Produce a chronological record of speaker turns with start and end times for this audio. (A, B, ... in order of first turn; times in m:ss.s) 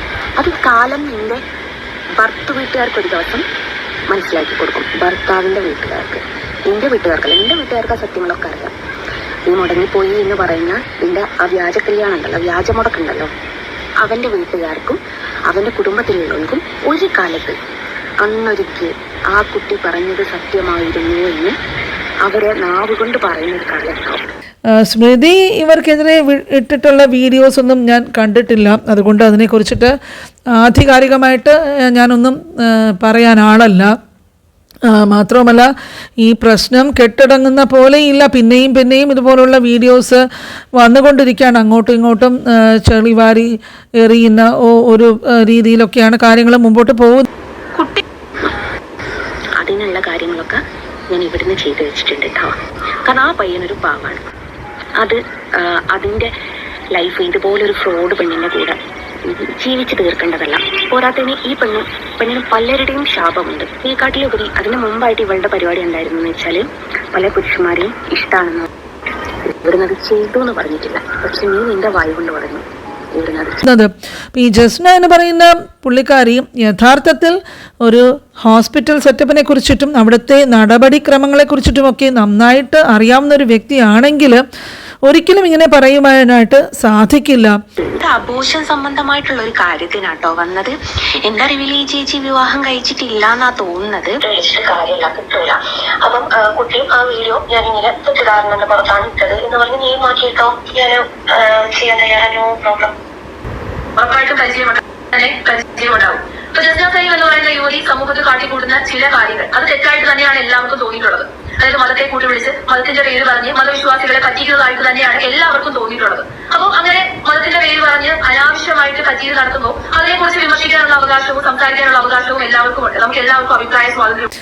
0:00.4-0:01.4 A
0:02.2-0:03.4 A
0:04.1-0:08.7 A
0:09.5-0:13.3 A
0:14.0-0:17.6 A
0:18.2-0:21.5 A
0:22.2-0:24.3 A
0:24.7-0:29.9 B
0:30.5-0:33.9 B
0:34.9-0:40.2 B
0:40.8-0:43.5 B
0:44.0-0:47.3 B
0:49.6-0:52.5 A
0:53.0-0:54.2 A
0:55.0-0:56.3 A
0:56.9-1:08.7 A
1:09.6-1:12.6 A
1:13.2-1:13.6 A
1:13.6-1:24.4 B
1:25.0-1:27.6 B
1:27.9-1:34.2 A
1:34.2-1:42.9 C
1:44.0-2:04.3 D